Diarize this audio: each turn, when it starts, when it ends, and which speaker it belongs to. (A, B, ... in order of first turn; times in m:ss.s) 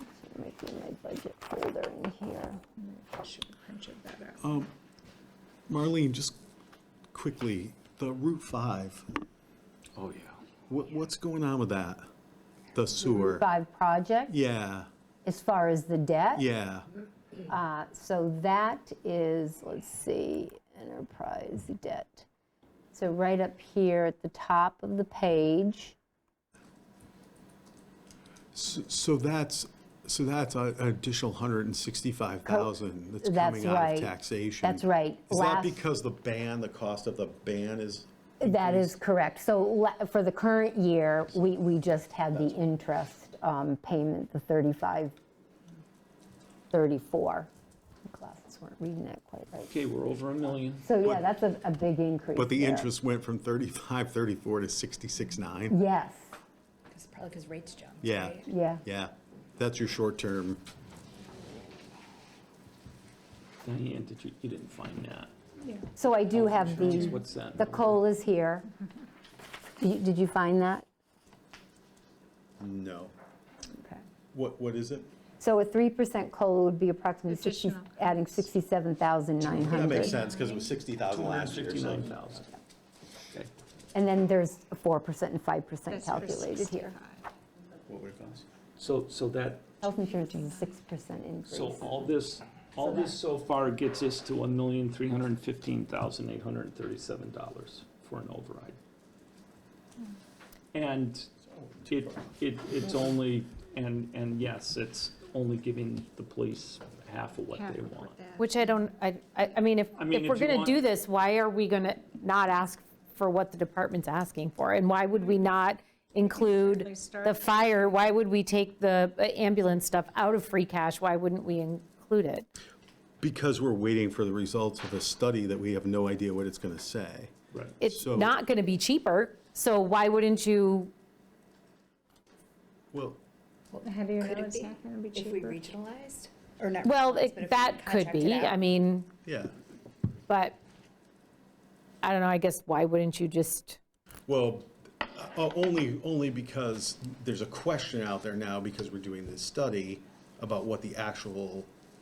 0:00.2-0:02.6 A
0:02.8-0:04.4 B
0:04.4-0:04.7 C
0:05.7-0:06.4 C
0:07.1-0:09.1 C
0:09.9-0:10.4 D
0:10.7-0:12.1 C
0:12.7-0:13.4 C
0:13.1-0:14.3 A
0:14.3-0:14.9 C
0:15.2-0:16.4 A
0:16.3-0:16.8 C
0:17.5-0:22.2 A
0:22.9-0:26.0 A
0:28.5-0:38.9 C
0:32.4-0:35.8 A
0:38.4-0:45.1 A
0:42.3-0:42.6 C
0:46.7-0:47.5 A
0:48.1-0:49.7 A
0:49.7-0:50.9 D
0:50.8-0:52.9 A
0:51.0-0:51.3 C
0:52.4-0:55.7 C
0:55.7-0:56.3 A
0:56.9-0:58.5 E
0:58.0-1:00.6 C
0:58.5-0:58.8 A
1:03.6-1:05.3 D
1:05.6-1:05.9 B
1:06.0-1:08.7 A
1:06.3-1:08.0 D
1:09.8-1:10.8 A
1:12.6-1:13.1 C
1:14.3-1:15.1 C
1:15.4-1:20.3 A
1:17.2-1:18.5 B
1:19.4-1:22.1 C
1:20.1-1:20.6 B
1:21.1-1:22.5 D
1:23.9-1:26.9 A
1:25.9-1:27.3 B
1:27.9-1:28.4 C
1:28.8-1:29.6 D
1:29.8-1:32.2 A
1:31.5-1:38.8 D
1:40.7-1:41.3 D
1:41.5-1:42.2 C
1:41.9-1:48.2 D
1:47.6-1:48.6 B
1:48.4-2:02.5 F
1:50.0-1:50.8 D
1:56.2-1:58.1 B
2:03.2-2:08.4 C
2:07.8-2:10.9 F
2:12.9-2:13.2 C
2:13.8-2:15.6 B
2:13.8-2:18.6 E
2:16.8-2:19.1 F
2:19.2-2:19.5 C
2:20.3-2:20.6 F
2:22.0-2:23.8 F
2:24.3-2:31.7 C